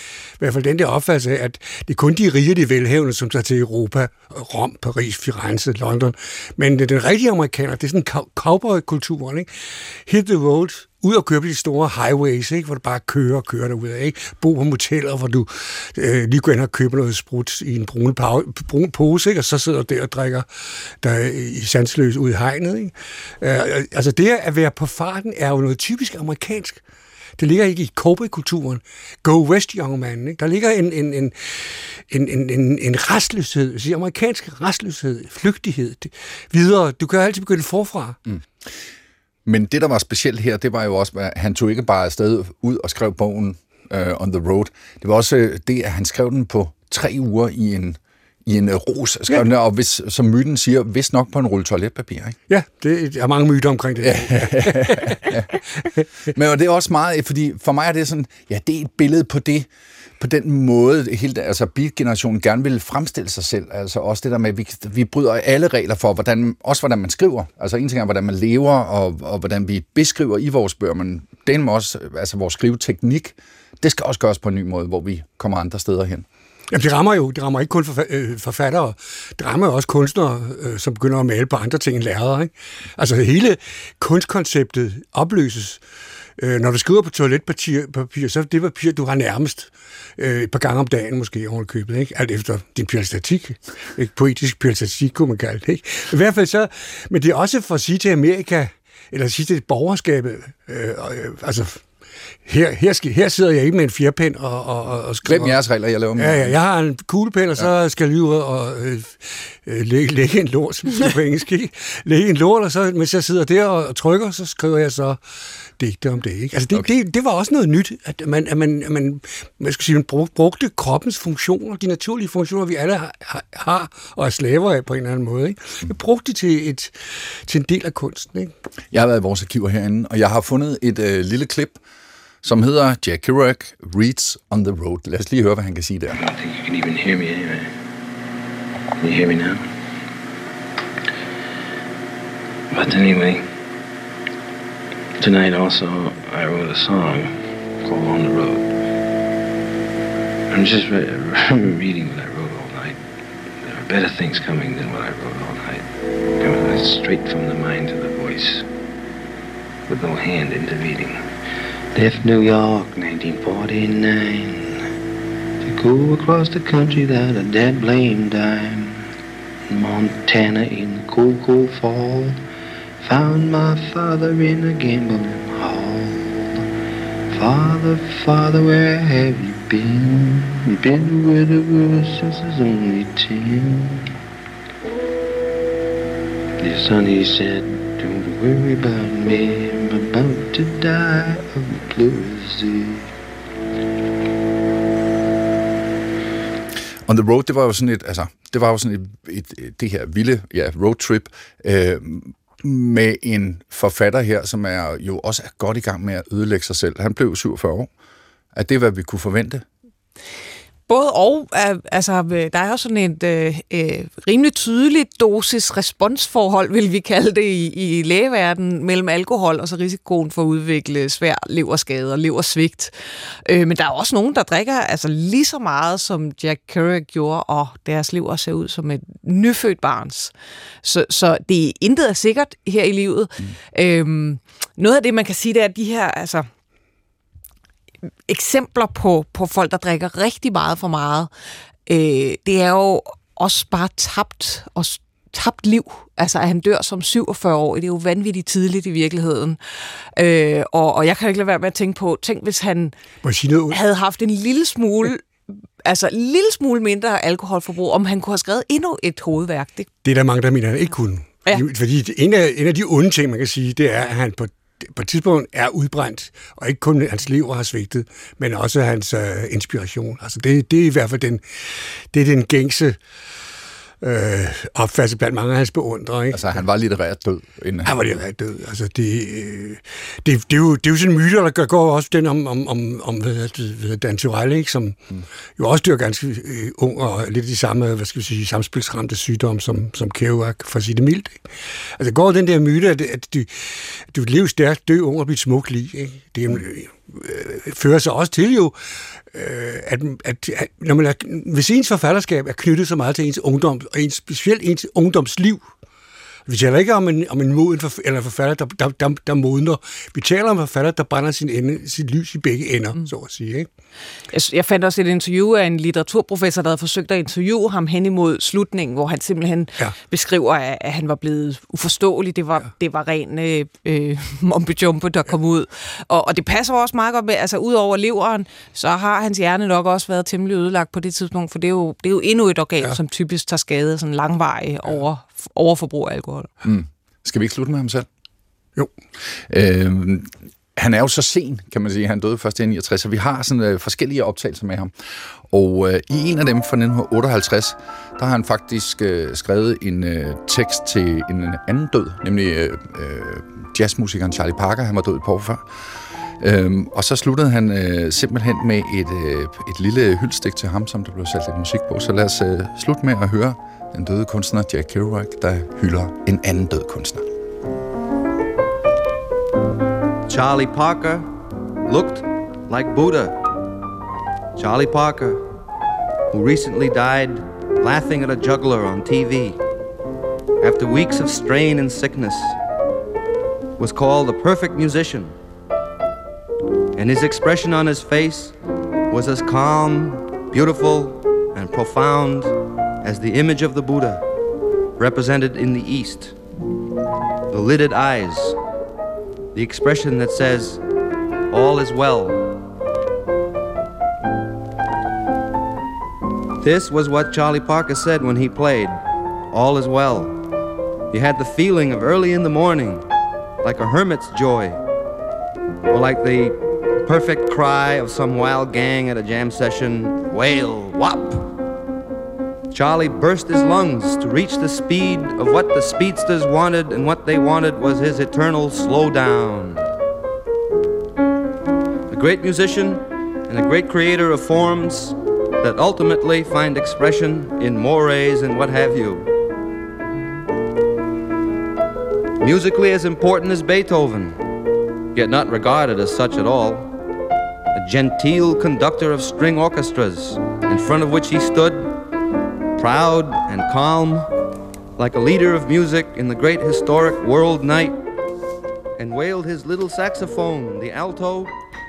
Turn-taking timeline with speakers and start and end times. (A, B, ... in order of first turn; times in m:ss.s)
0:00.4-0:26.8 A
0:27.4-0:38.2 A
0:39.5-0:52.4 B
0:52.5-0:56.0 A
0:54.0-0:55.5 B
0:56.3-0:59.7 B
1:00.2-1:16.2 B
1:16.7-1:25.8 A
1:26.4-1:41.8 A
1:42.4-1:45.6 A
1:45.2-1:46.6 B
1:46.2-1:55.2 A
1:55.8-2:08.5 A
2:08.9-2:11.8 B
2:12.4-2:16.2 B
2:16.1-2:17.8 C
2:19.0-2:19.7 C
2:22.7-2:23.4 C
2:25.2-2:28.7 C
2:30.5-2:33.0 C
2:33.6-2:38.7 C
2:39.9-2:41.3 C
2:41.9-2:44.8 C
2:45.6-2:49.1 C
2:49.7-2:52.4 C
2:53.0-2:56.6 C
2:57.3-3:04.1 C
3:06.6-3:13.1 C
3:17.1-3:27.9 B
3:28.6-3:29.6 B
3:30.9-3:42.9 D
3:43.5-3:56.5 D
3:58.3-4:01.3 D
4:01.9-4:09.6 D
4:10.2-4:13.0 D
4:13.2-4:13.8 A
4:13.7-4:19.9 D
4:20.0-4:33.0 A
4:34.0-4:36.6 A
4:36.3-4:38.2 B
4:37.8-4:45.0 A
4:45.6-4:58.8 A
4:59.3-5:05.6 A
5:06.5-5:13.7 A
5:14.3-5:36.5 D
5:36.6-5:38.1 B
5:39.5-5:44.9 B
5:45.5-5:55.7 B
5:56.4-6:07.2 B
6:10.3-6:11.3 E
6:11.9-6:13.4 E
6:14.6-6:15.4 E
6:16.3-6:19.6 E
6:20.6-6:22.6 E
6:23.8-6:25.4 E
6:27.0-6:28.6 E
6:29.1-6:34.2 E
6:35.0-6:36.4 E
6:37.5-6:38.6 E
6:39.5-6:40.8 E
6:41.5-6:42.4 E
6:46.6-6:49.0 E
6:49.5-6:50.4 E
6:51.1-6:53.0 E
6:53.6-6:54.8 E
6:55.9-7:01.5 E
7:02.7-7:09.9 E
7:12.1-7:19.3 E
7:22.4-7:24.4 E
7:25.1-7:26.9 E
7:27.8-7:31.9 E
7:32.8-7:34.3 E
7:35.0-7:38.0 E
7:39.0-7:41.5 E